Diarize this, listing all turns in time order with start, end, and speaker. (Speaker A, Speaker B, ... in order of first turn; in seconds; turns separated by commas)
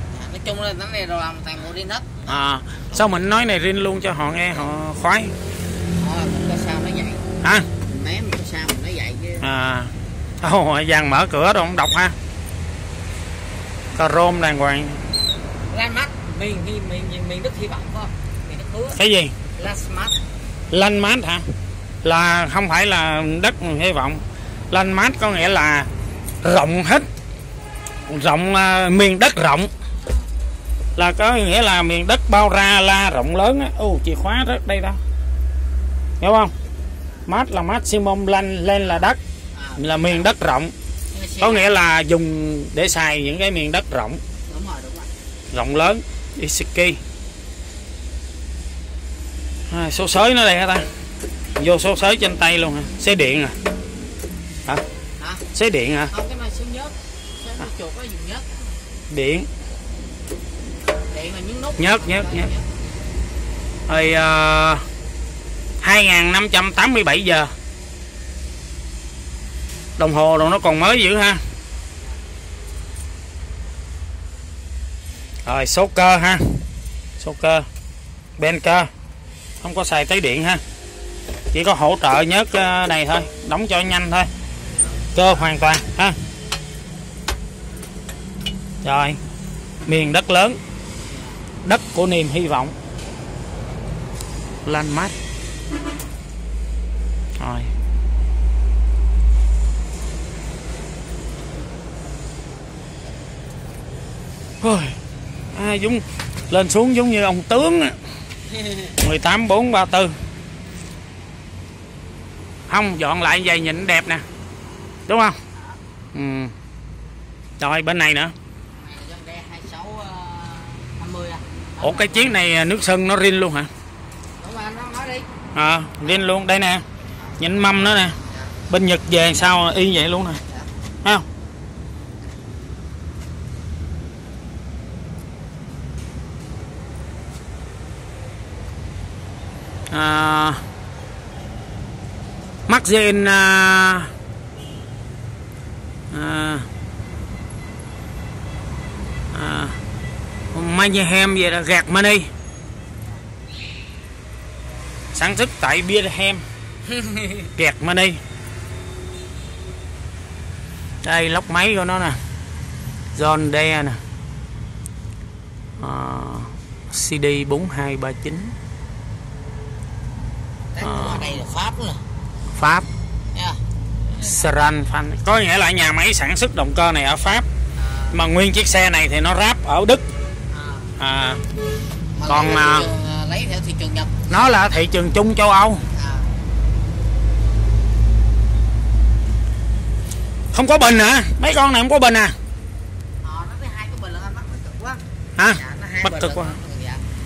Speaker A: 0.1-2.3, Speaker B: 2.3-5.3, Speaker A: 6.0-7.3, Speaker B: 7.4-7.7, Speaker A: 7.8-9.5, Speaker B: 9.4-12.2, Speaker B: 13.9-15.0, Speaker A: 15.7-19.0, Speaker B: 18.9-19.3, Speaker A: 19.6-20.2, Speaker B: 20.7-21.4, Speaker B: 22.0-25.9, Speaker B: 26.4-27.1, Speaker B: 28.1-29.7, Speaker A: 30.0-30.3, Speaker B: 31.0-35.0, Speaker B: 36.2-36.5, Speaker B: 37.3-39.2, Speaker A: 39.5-40.3, Speaker B: 39.8-40.7, Speaker A: 41.1-41.8, Speaker B: 41.4-44.2, Speaker A: 44.5-45.1, Speaker B: 45.5-47.0, Speaker B: 49.7-50.9, Speaker B: 51.6-53.6, Speaker A: 55.2-55.4, Speaker B: 55.5-56.1, Speaker A: 56.0-58.8, Speaker B: 59.1-59.5, Speaker A: 61.1-62.7, Speaker B: 61.8-62.5, Speaker B: 63.9-64.8, Speaker B: 65.8-67.5, Speaker B: 70.0-71.4, Speaker B: 75.4-76.6, Speaker B: 77.2-77.7, Speaker B: 78.4-78.9, Speaker B: 79.6-80.6, Speaker B: 81.5-84.3, Speaker B: 85.1-86.2, Speaker B: 88.8-89.2, Speaker B: 89.9-90.6, Speaker A: 91.1-91.4, Speaker B: 91.6-92.8, Speaker B: 94.6-95.1, Speaker B: 97.4-97.7, Speaker B: 104.6-105.0, Speaker B: 105.5-108.0, Speaker B: 109.0-110.1, Speaker B: 112.7-114.2, Speaker B: 115.1-115.4, Speaker B: 116.1-116.5, Speaker B: 117.6-118.3, Speaker A: 118.7-122.4, Speaker B: 121.8-123.7, Speaker A: 124.4-125.2, Speaker B: 125.5-126.8, Speaker B: 127.4-128.2, Speaker B: 128.7-130.4, Speaker B: 139.9-140.6, Speaker B: 142.7-144.1, Speaker B: 146.1-146.7, Speaker B: 149.3-149.8, Speaker B: 150.5-152.3, Speaker B: 155.1-156.4, Speaker A: 157.1-157.3, Speaker B: 157.6-158.2, Speaker B: 161.0-162.2, Speaker B: 163.1-164.0, Speaker B: 165.8-168.5, Speaker A: 170.7-172.0, Speaker B: 170.8-171.3, Speaker B: 172.5-172.9, Speaker A: 173.3-174.7, Speaker B: 174.2-177.4, Speaker A: 177.8-178.2, Speaker B: 178.1-180.0, Speaker A: 180.5-180.9, Speaker B: 181.0-181.4, Speaker A: 182.1-184.6, Speaker B: 182.2-182.9, Speaker B: 184.3-185.8, Speaker A: 185.9-186.3, Speaker B: 190.5-192.3, Speaker A: 193.2-197.0, Speaker B: 195.4-196.5